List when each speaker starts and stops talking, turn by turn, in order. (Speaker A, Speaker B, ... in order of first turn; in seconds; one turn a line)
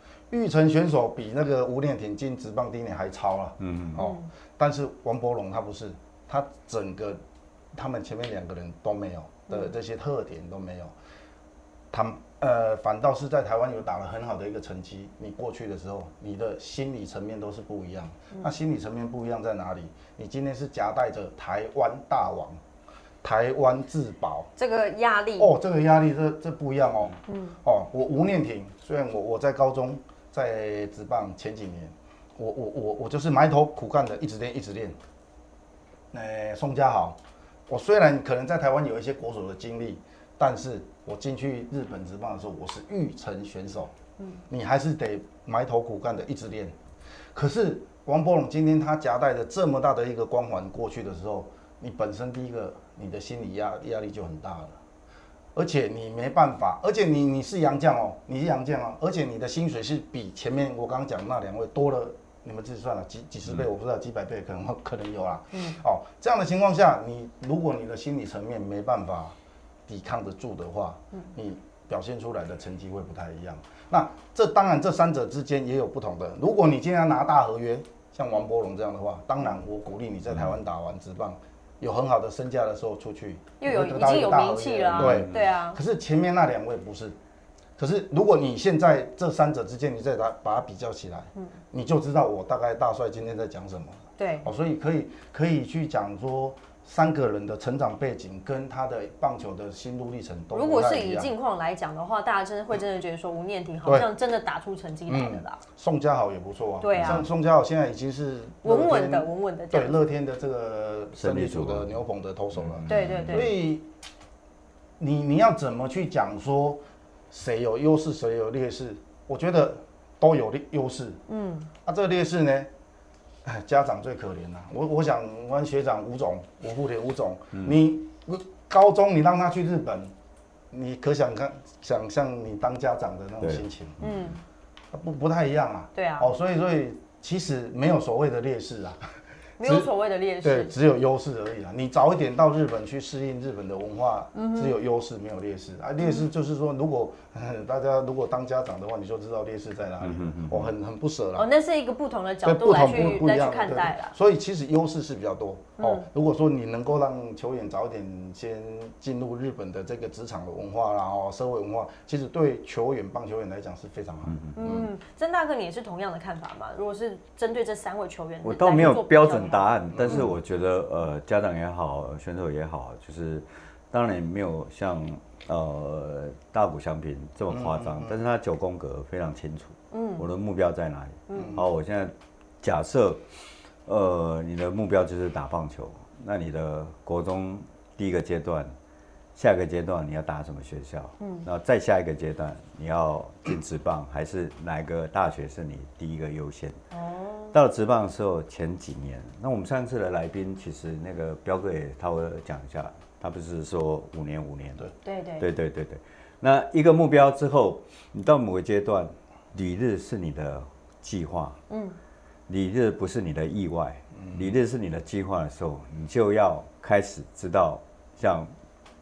Speaker A: 0.3-7.2
Speaker B: 3.6-4.0
Speaker C: 4.0-4.3
Speaker A: 7.7-10.9
Speaker A: 11.9-22.6
Speaker A: 23.2-24.5
Speaker C: 24.6-25.6
Speaker A: 25.4-35.0
Speaker C: 27.3-27.6
Speaker A: 36.1-43.9
Speaker A: 44.5-46.8
Speaker A: 47.3-54.8
Speaker A: 55.5-69.3
Speaker A: 69.9-87.2
Speaker C: 83.6-85.8
Speaker B: 84.9-85.5
Speaker A: 87.8-101.3
Speaker C: 94.2-94.5
Speaker C: 100.5-105.6
Speaker A: 103.8-104.1
Speaker A: 105.1-113.9
Speaker C: 106.8-107.2
Speaker B: 106.9-107.2
Speaker C: 108.6-110.0
Speaker B: 111.2-112.0
Speaker B: 112.6-113.5
Speaker C: 112.9-113.5
Speaker A: 115.0-121.2
Speaker C: 121.3-121.7
Speaker A: 121.8-122.7
Speaker A: 123.4-130.1
Speaker A: 130.7-134.1
Speaker B: 133.4-134.2
Speaker C: 134.0-134.4
Speaker A: 134.9-139.0
Speaker C: 135.9-136.3
Speaker C: 139.6-140.7
Speaker A: 139.6-139.9
Speaker A: 140.4-151.5
Speaker C: 144.3-144.8
Speaker B: 150.0-150.7
Speaker C: 151.3-154.1
Speaker A: 152.4-164.8
Speaker C: 155.8-156.1
Speaker B: 164.3-164.8
Speaker C: 164.5-170.2
Speaker B: 168.4-183.2
Speaker A: 169.9-170.3
Speaker A: 177.5-178.2
Speaker C: 179.9-180.2
Speaker C: 181.3-181.6
Speaker A: 181.3-181.6
Speaker B: 183.8-188.7
Speaker B: 189.3-196.8
Speaker C: 191.2-191.4
Speaker C: 196.9-197.5
Speaker B: 197.5-204.8
Speaker C: 205.0-205.4
Speaker B: 205.4-211.6
Speaker C: 211.7-212.0
Speaker B: 212.5-218.5
Speaker A: 214.2-214.5